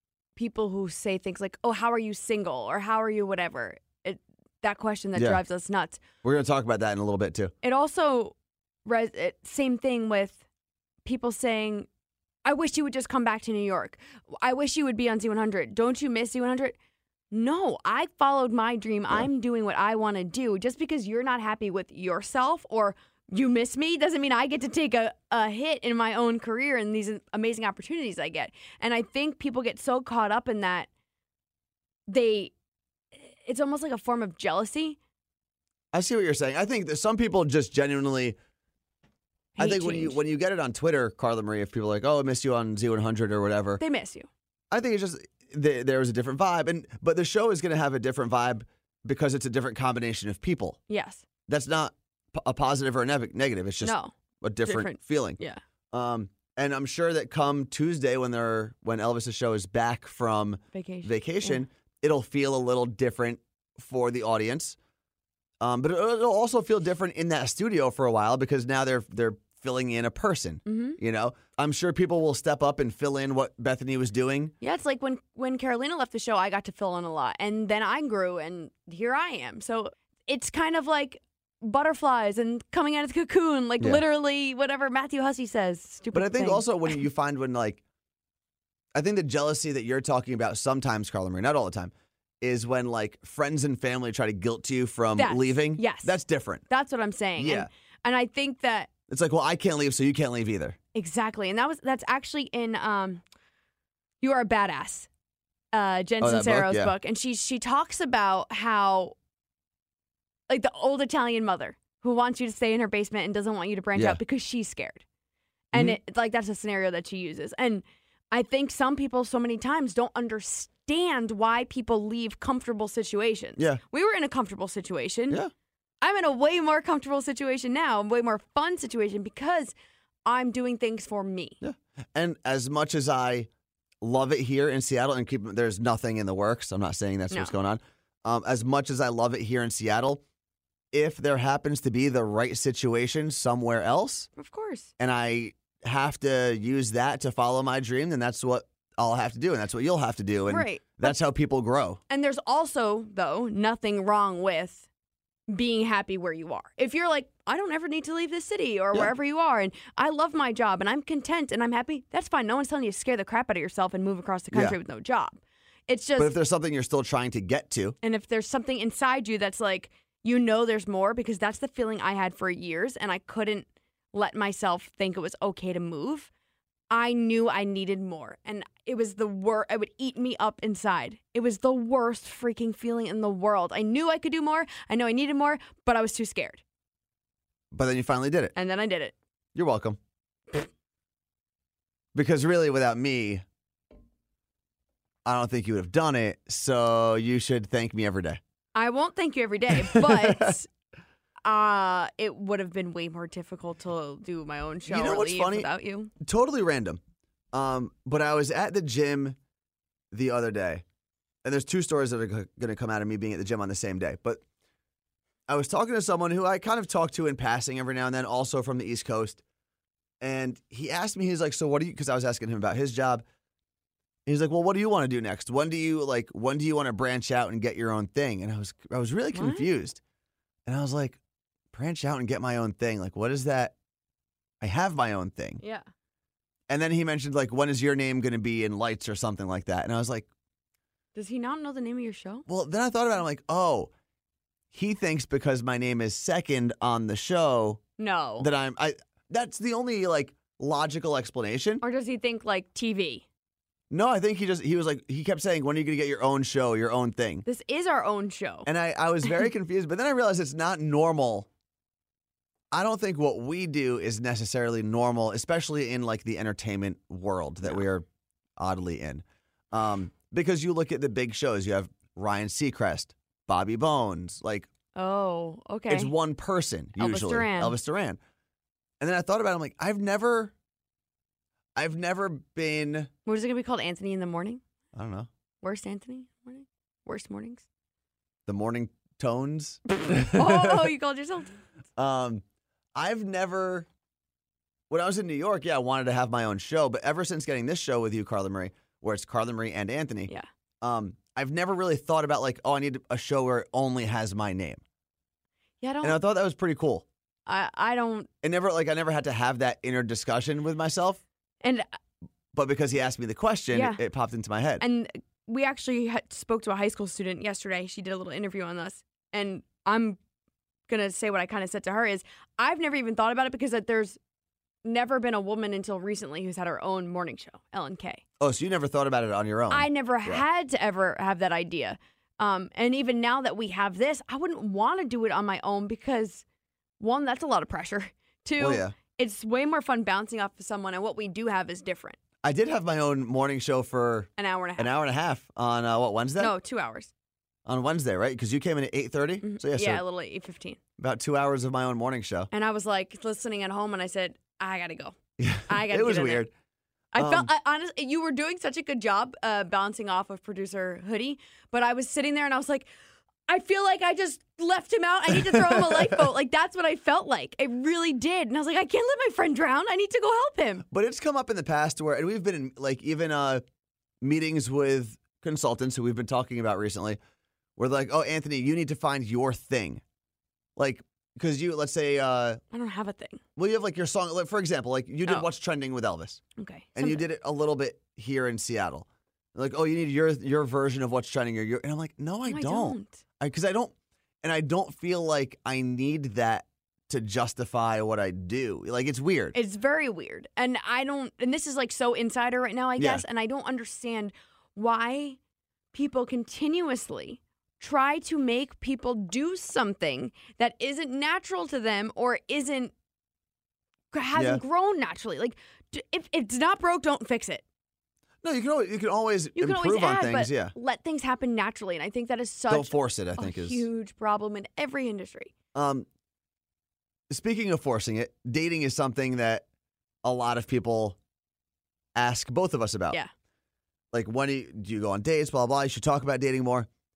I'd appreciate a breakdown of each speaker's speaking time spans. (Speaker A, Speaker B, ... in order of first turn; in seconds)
Speaker A: 0.4-6.0, 7.6-10.4, 11.1-11.9, 12.4-16.8, 17.3-30.9, 32.1-32.5, 33.2-35.0, 39.6-40.2, 43.8-44.3, 50.9-51.2, 53.8-55.6, 60.7-61.6, 70.7-71.0, 74.6-87.0, 95.2-96.2, 96.7-98.9, 101.0-103.2, 104.2-105.1, 105.7-109.2, 110.5-115.0, 115.7-125.4, 126.0-129.7, 130.2-131.6, 144.4-144.9, 150.5-151.2, 152.1-154.8, 155.5-166.3, 168.0-176.3, 176.9-186.6, 188.6-189.2, 198.8-200.7, 201.4-206.1, 229.3-229.7, 235.6-235.9, 241.2-242.5, 248.0-248.5, 251.8-253.3, 257.4-258.7, 274.9-276.1, 277.0-277.8, 283.3-284.6, 285.6-287.7, 290.1-291.6, 305.8-306.2, 307.5-308.3, 313.7-314.0, 314.8-320.2, 320.9-324.2, 324.8-328.2, 329.7-336.4, 337.0-342.2, 344.4-344.9, 346.4-347.1, 349.4-350.8, 352.5-355.1, 355.7-356.4, 357.1-362.9, 363.5-370.9, 382.7-383.4, 386.6-387.2, 392.5-393.2, 399.5-405.4, 405.9-412.9, 414.1-417.6, 419.6-425.5
Speaker B: 6.2-7.5, 35.9-38.4, 39.6-43.8, 44.7-50.8, 51.5-55.4, 55.9-64.8, 65.6-74.5, 86.1-87.8, 89.0-96.6, 97.4-97.7, 99.1-100.8, 106.2-106.9, 131.6-133.5, 134.0-140.2, 140.9-144.3, 145.0-152.0, 164.5-164.8, 166.2-168.0, 187.7-188.5, 189.6-190.0, 192.1-193.4, 195.2-198.4, 199.7-200.6, 204.9-207.0, 207.5-209.4, 210.1-210.8, 211.4-214.4, 215.5-219.4, 220.2-223.2, 224.3-230.0, 230.7-231.2, 231.7-233.8, 234.6-235.6, 236.7-240.3, 242.5-243.9, 244.7-247.8, 248.4-251.8, 253.9-257.4, 258.6-261.5, 262.7-268.1, 268.6-274.7, 275.9-278.2, 279.0-280.5, 281.8-283.1, 284.9-285.3, 288.5-290.9, 292.0-292.4, 292.9-293.9, 294.9-304.8, 306.0-307.1, 308.4-311.2, 312.5-314.8, 328.4-330.4, 338.6-338.9, 342.4-346.5, 347.7-350.0, 351.0-352.5, 355.4-356.5, 357.2-357.5, 365.3-366.3, 370.9-373.6, 374.2-377.2, 377.8-380.0, 380.8-382.6, 383.6-386.4, 387.0-399.6, 403.0-403.2, 414.4-414.6, 418.4-420.7, 422.7-423.9, 425.8-426.1, 427.3-429.6, 430.2-431.2, 432.1-433.2, 434.1-436.9